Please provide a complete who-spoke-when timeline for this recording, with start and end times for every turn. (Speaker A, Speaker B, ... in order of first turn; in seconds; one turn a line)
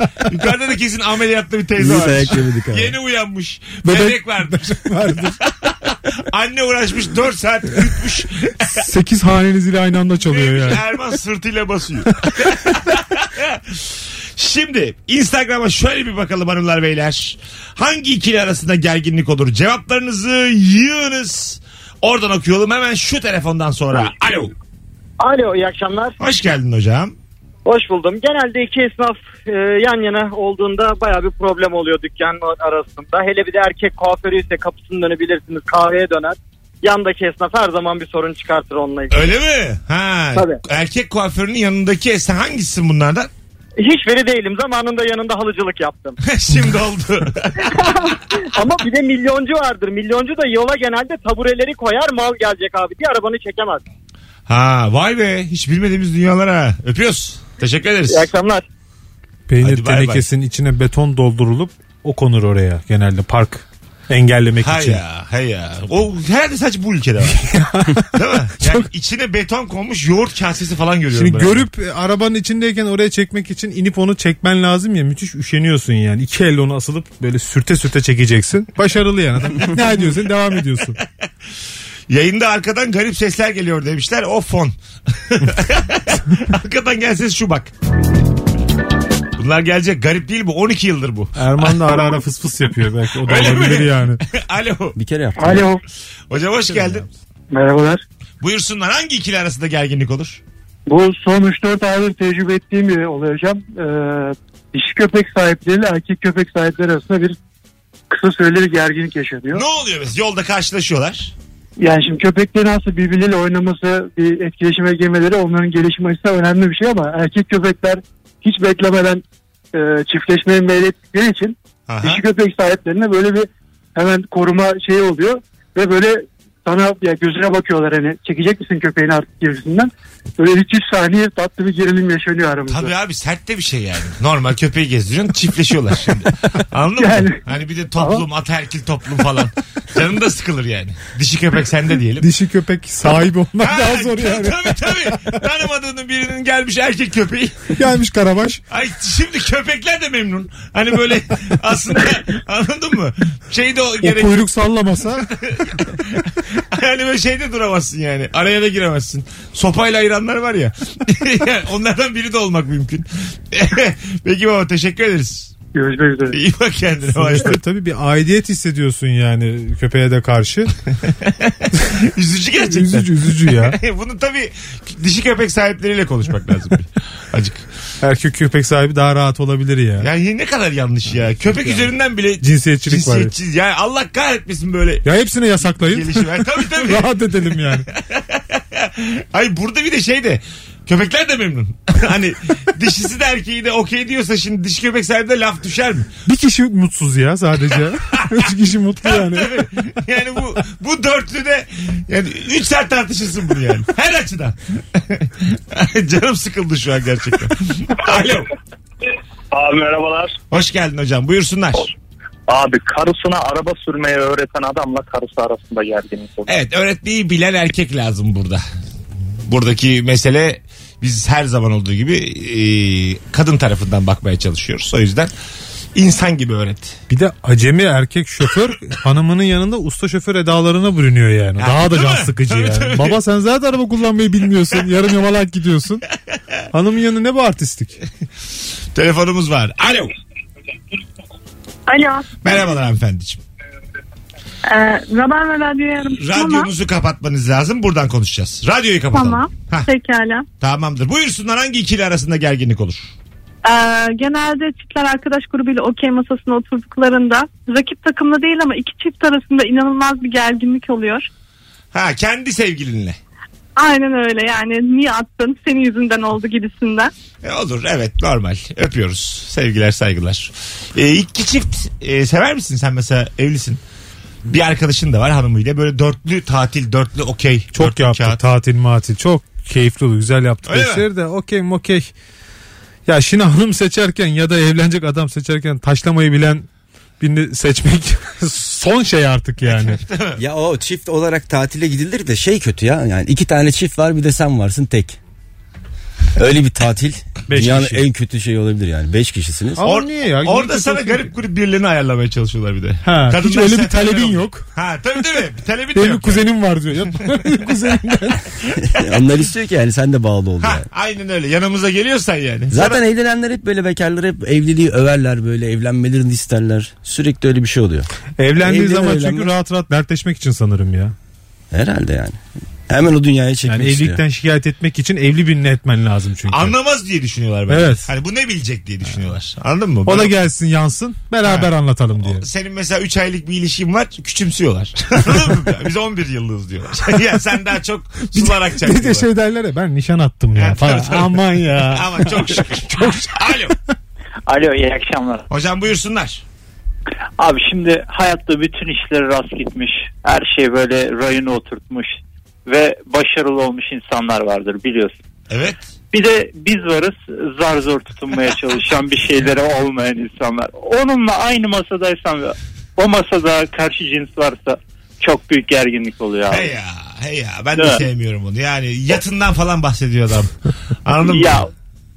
Speaker A: 0.3-8.8
Speaker B: 1.8-2.9
Speaker C: 3.8-5.4
Speaker C: 8.7-10.8
Speaker A: 10.2-24.5
Speaker D: 25.2-26.1
Speaker A: 26.2-27.1
Speaker D: 27.6-39.3
Speaker A: 39.1-43.3
Speaker D: 43.8-46.2
Speaker A: 46.2-48.1
Speaker D: 47.6-53.8
Speaker A: 54.5-58.3
Speaker D: 58.1-58.6
Speaker C: 59.5-65.0
Speaker A: 59.6-60.3
Speaker A: 64.6-67.4
Speaker C: 67.3-68.9
Speaker A: 68.1-71.7
Speaker C: 71.1-81.0
Speaker A: 79.5-80.1
Speaker A: 82.1-87.7
Speaker A: 89.4-92.1
Speaker C: 91.4-94.2
Speaker A: 93.2-95.0
Speaker B: 94.9-95.7
Speaker E: 95.4-95.8
Speaker A: 96.3-97.0
Speaker C: 96.7-97.1
Speaker E: 97.5-98.0
Speaker A: 98.4-100.4
Speaker E: 100.9-107.3
Speaker E: 108.1-109.6
Speaker A: 109.5-111.3
Speaker E: 111.8-119.2
Speaker E: 119.7-132.9
Speaker A: 121.9-122.2
Speaker A: 132.7-142.3
Speaker E: 137.0-137.4
Speaker E: 138.0-138.2
Speaker C: 142.2-145.4
Speaker A: 143.6-147.7
Speaker C: 147.8-148.6
Speaker A: 148.7-154.5
Speaker C: 154.0-155.2
Speaker A: 155.2-165.5
Speaker E: 165.7-166.4
Speaker A: 166.3-167.6
Speaker C: 167.1-170.7
Speaker A: 171.3-177.6
Speaker C: 172.7-173.8
Speaker C: 178.0-180.1
Speaker A: 180.0-185.0
Speaker C: 181.5-181.9
Speaker C: 182.4-183.3
Speaker C: 185.0-187.8
Speaker A: 185.7-196.1
Speaker C: 196.2-199.5
Speaker A: 198.0-198.4
Speaker A: 199.0-208.5
Speaker F: 209.5-210.3
Speaker A: 210.5-211.9
Speaker F: 212.5-216.5
Speaker A: 216.5-218.6
Speaker A: 219.4-225.3
Speaker A: 225.9-227.0
Speaker C: 227.1-236.0
Speaker A: 231.6-233.2
Speaker C: 236.7-238.0
Speaker A: 238.9-240.1
Speaker G: 241.9-242.5
Speaker A: 242.4-243.4
Speaker G: 244.7-246.7
Speaker A: 246.2-249.9
Speaker G: 249.1-250.4
Speaker A: 250.6-253.1
Speaker G: 253.6-261.3
Speaker A: 261.9-263.2
Speaker G: 263.8-267.1
Speaker A: 267.4-273.8
Speaker A: 274.5-278.4
Speaker C: 277.7-282.1
Speaker A: 280.6-281.1
Speaker C: 283.1-286.7
Speaker C: 287.2-290.0
Speaker A: 289.6-290.4
Speaker B: 290.4-295.2
Speaker B: 296.4-299.8
Speaker C: 297.5-298.0
Speaker C: 299.8-301.3
Speaker A: 299.8-306.5
Speaker C: 303.0-304.6
Speaker C: 305.9-308.5
Speaker B: 308.9-310.9
Speaker A: 310.6-313.0
Speaker B: 312.7-319.5
Speaker C: 318.4-321.1
Speaker B: 321.7-324.2
Speaker C: 323.6-326.7
Speaker A: 326.5-330.3
Speaker C: 327.7-328.1
Speaker C: 330.1-332.4
Speaker A: 331.4-339.3
Speaker C: 338.4-343.4
Speaker A: 340.6-343.8
Speaker H: 344.5-345.4
Speaker A: 345.5-346.4
Speaker H: 347.4-355.1
Speaker A: 355.5-355.8
Speaker H: 356.1-366.7
Speaker A: 366.5-371.7
Speaker H: 367.7-368.1
Speaker H: 371.2-371.7